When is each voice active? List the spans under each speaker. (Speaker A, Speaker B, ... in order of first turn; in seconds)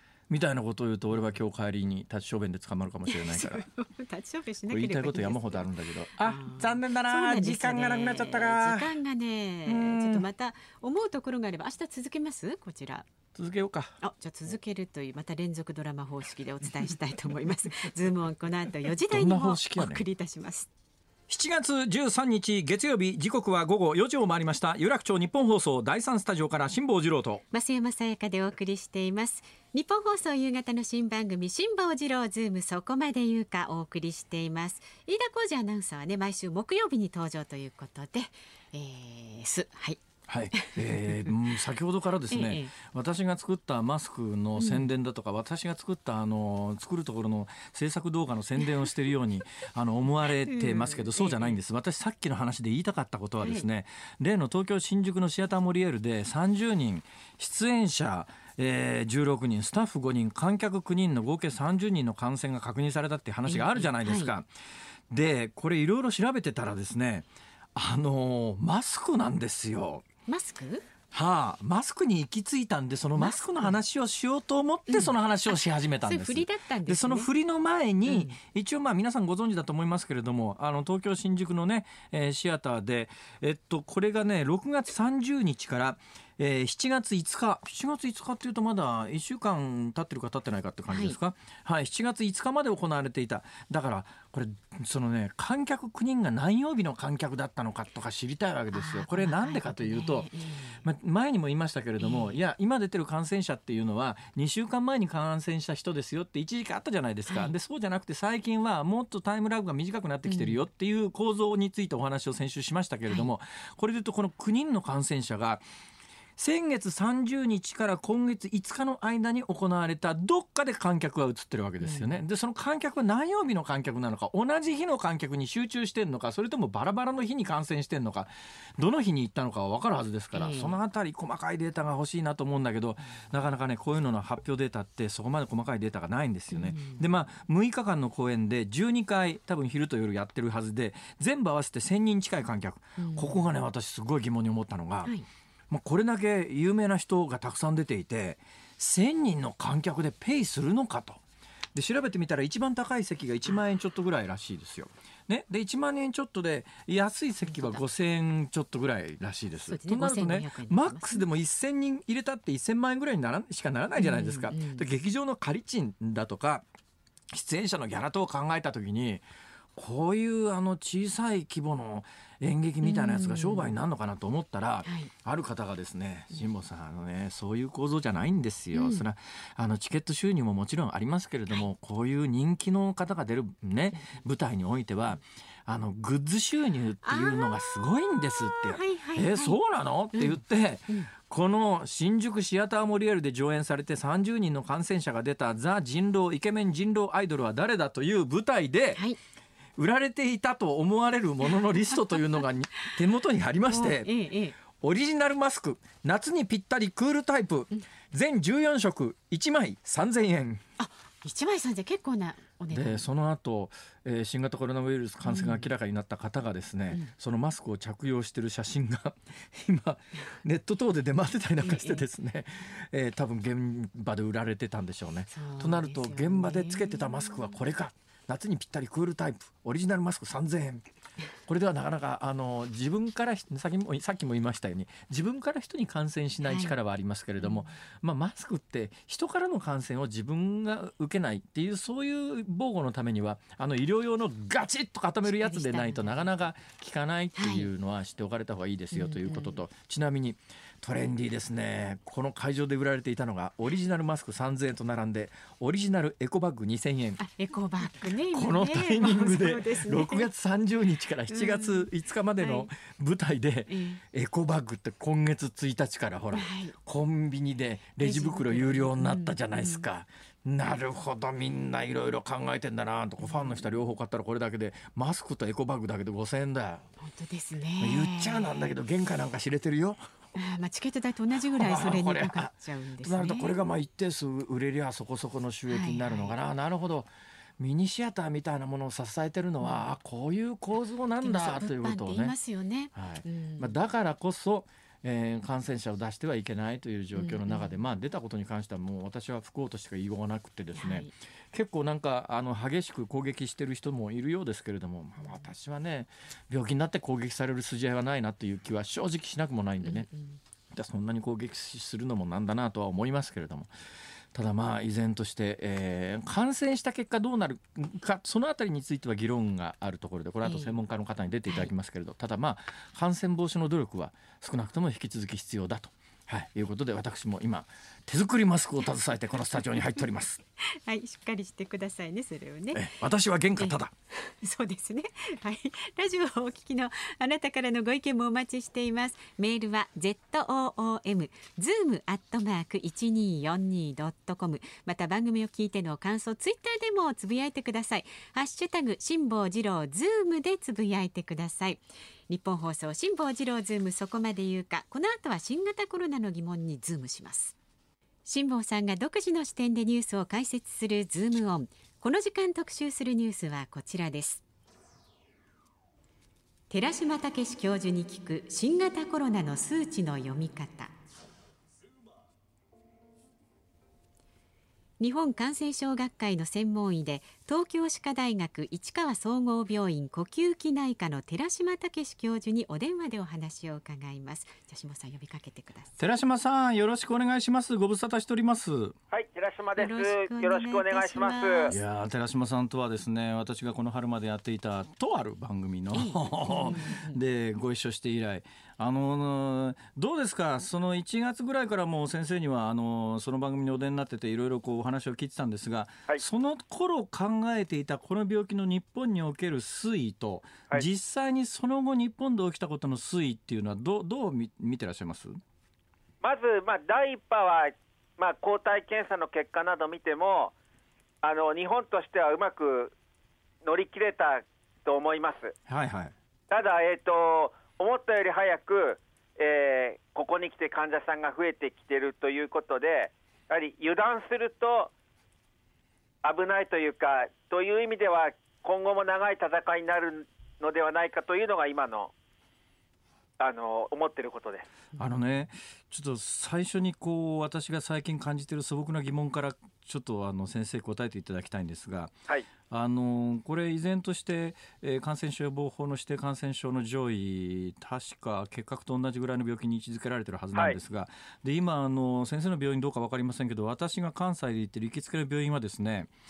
Speaker A: 0.3-3.6, 4.7-8.9, 9.7-10.2, 13.3-14.0, 19.1-20.0, 21.3-27.4, 40.3-64.5, 65.1-70.0, 71.1-115.6, 116.4-145.1, 145.7-151.2, 151.7-166.7, 167.3-169.2, 169.8-199.0, 199.8-204.1, 204.8-210.6, 212.7-230.8, 231.5-257.2, 258.3-276.9, 277.8-280.1, 281.5-292.3, 292.9-310.1, 310.7-313.7, 314.3-330.4, 332.7-333.9, 386.0-388.9, 391.7-415.4, 425.7-426.1, 445.0-452.1, 452.7-466.1
Speaker B: 3.1-5.7, 6.2-13.1, 14.0-20.7, 27.5-40.0, 40.5-41.3, 42.3-42.7, 44.6-44.9, 50.4-51.6, 63.5-64.3, 70.3-70.8, 73.2-73.7, 74.9-77.3, 78.0-78.4, 90.9-91.2, 98.7-100.8, 102.0-102.4, 107.2-107.5, 110.2-110.6, 121.8-122.2, 130.3-130.8, 136.5-137.0, 143.0-143.3, 157.5-157.8, 159.7-161.2, 163.9-164.8, 172.8-173.7, 174.8-175.1, 178.7-179.0, 187.0-189.6, 190.1-191.1, 203.7-204.6, 210.8-213.1, 215.2-215.7, 221.6-222.0, 225.3-227.6, 236.4-236.7, 237.4-237.7, 245.2-246.3, 247.3-247.7, 248.9-249.6, 257.2-260.3, 261.3-262.7, 263.7-264.0, 266.3-266.8, 268.0-269.9, 273.2-273.6, 277.0-278.7, 280.3-283.6, 285.7-286.3, 291.2-293.8, 297.1-297.8, 300.7-301.1, 309.8-310.4, 320.4-320.8, 330.8-332.9, 333.6-357.5, 358.2-364.4, 366.7-370.9, 375.0-386.0, 389.8-391.8, 395.9-397.2
Speaker C: 389.1-391.7, 416.2-420.5, 421.2-422.9, 423.6-425.5, 426.5-434.9, 436.2-442.1, 443.4-444.7